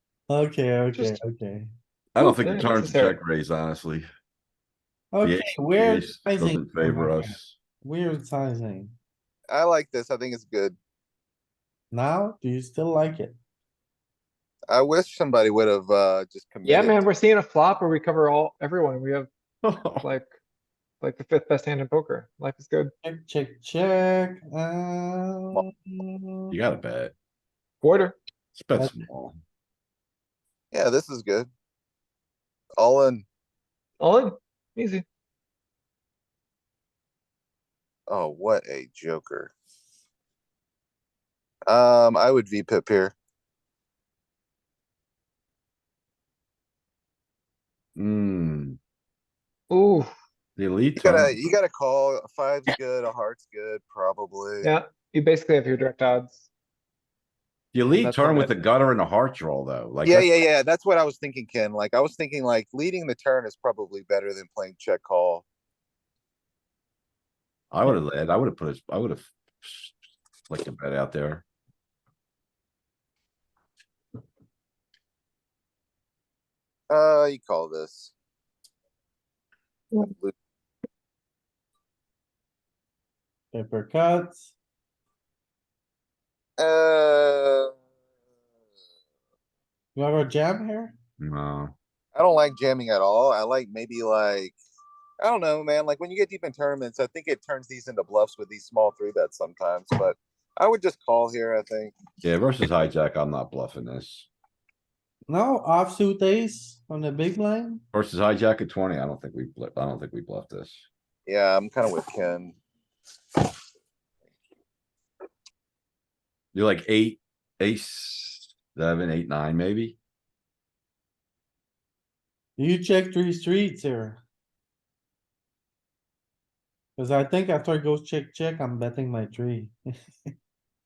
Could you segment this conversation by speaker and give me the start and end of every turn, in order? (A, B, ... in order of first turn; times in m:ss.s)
0:00.3-0:01.7 A
0:02.1-0:04.0 B
0:02.2-0:03.2 C
0:05.1-0:08.9 A
0:05.2-0:07.5 B
0:09.5-0:10.8 D
0:11.9-0:13.4 A
0:14.7-0:17.0 D
0:16.6-0:19.3 C
0:19.6-0:20.0 B
0:20.0-0:20.3 C
0:21.0-0:22.9 C
0:23.0-0:26.5 A
0:26.5-0:27.1 B
0:27.8-0:28.1 C
0:28.5-0:29.4 B
0:28.8-0:29.0 A
0:30.7-0:31.5 D
0:32.8-0:33.2 D
0:34.0-0:35.0 C
0:38.1-0:39.5 D
0:41.7-0:43.1 D
0:48.0-0:48.8 B
0:49.7-0:50.1 C
0:50.6-0:51.3 B
0:51.0-0:54.7 D
0:54.6-0:56.5 C
0:57.7-1:00.3 B
0:57.9-0:58.6 C
1:00.0-1:05.4 D
1:07.7-1:10.0 B
1:10.5-1:11.4 B
1:16.9-1:18.1 D
1:19.9-1:20.3 D
1:23.5-1:24.5 A
1:26.6-1:27.7 D
1:29.9-1:30.9 A
1:31.2-1:31.7 B
1:32.1-1:34.6 D
1:35.2-1:42.0 D
1:42.2-1:44.3 B
1:45.3-1:47.8 A
1:47.9-1:50.8 B
1:51.2-1:52.6 D
1:56.5-2:00.0 B
2:02.6-2:04.2 A
2:07.0-2:09.7 A